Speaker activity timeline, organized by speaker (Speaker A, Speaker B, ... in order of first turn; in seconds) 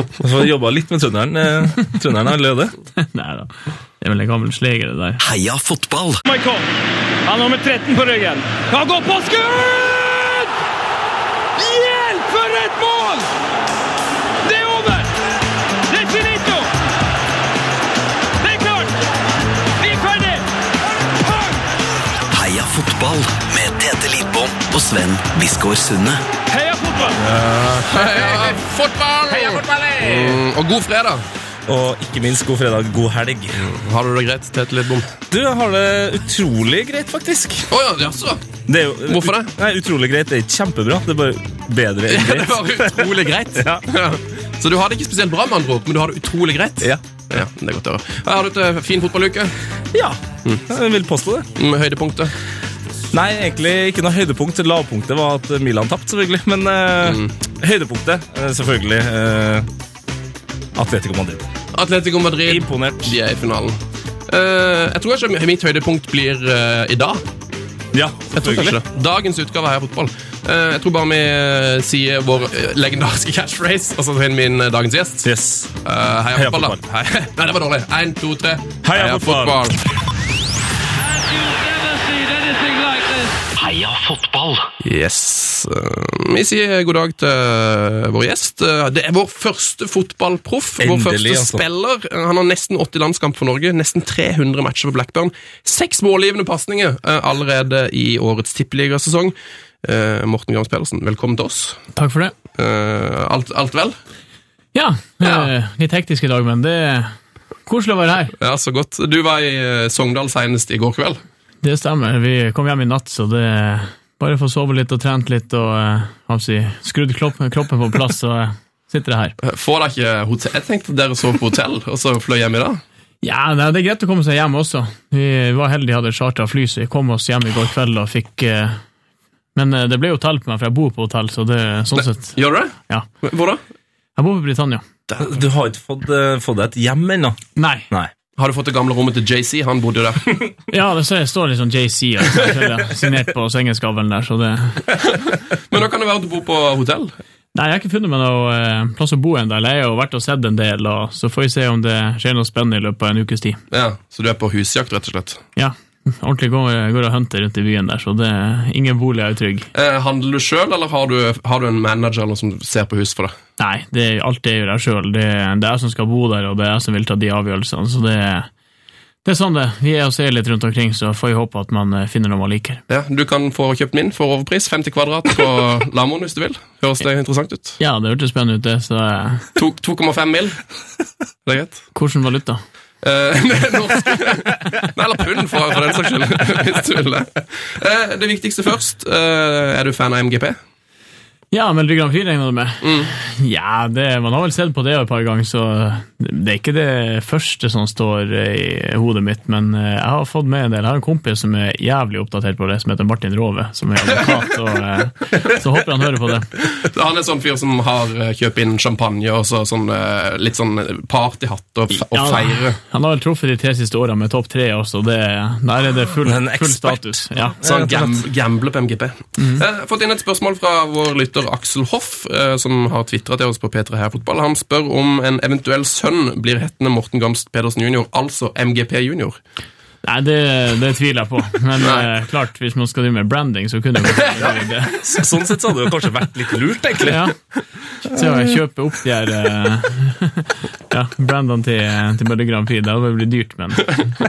Speaker A: 0.2-2.7, 31.7-33.6, 35.3-37.7, 38.7-43.8, 49.9-51.5, 53.1-59.7, 60.8-61.5, 62.5-63.1, 67.9-68.8, 75.2-75.7, 76.3-76.8, 78.8-79.6, 90.8-91.6, 135.2-137.4, 216.2-218.2, 234.4-237.2
Speaker B: 3.0-5.2, 102.0-102.3, 104.7-107.1, 107.7-108.3, 111.6-119.3, 123.2-128.8, 129.6-132.4, 134.2-134.8, 137.6-137.9, 140.7-144.8, 147.6-153.6, 155.6-159.7, 163.6-168.5, 169.2-172.8, 177.8-179.5, 181.9-182.6, 191.5-206.5, 211.9-217.6, 219.4-219.6, 230.0-235.0, 237.0-237.3, 238.0-244.1
Speaker C: 5.2-6.2, 22.3-26.2, 83.6-84.7
Speaker D: 6.2-6.7, 7.2-10.5, 11.6-13.3, 14.4-15.1, 15.9-16.7, 18.4-18.9, 19.8-20.4, 21.2-21.5, 26.5-27.2, 81.0-83.4
Speaker E: 27.2-31.2, 33.6-35.1, 37.7-38.5, 39.1-39.5, 42.1-49.5, 51.6-52.3, 57.0-57.3, 61.7-63.8, 64.3-67.2, 68.3-75.3, 75.8-79.8, 84.8-101.8, 102.6-104.0, 105.2-105.5, 108.4-111.2, 119.4-122.8, 132.0-133.6, 135.1-135.4, 138.4-140.3, 145.0-147.1, 153.7-155.4, 159.7-163.3, 172.9-177.8, 179.6-180.6, 181.5-181.8, 183.0-190.6, 192.8-193.1, 206.6-212.8, 217.6-229.4, 231.8-232.1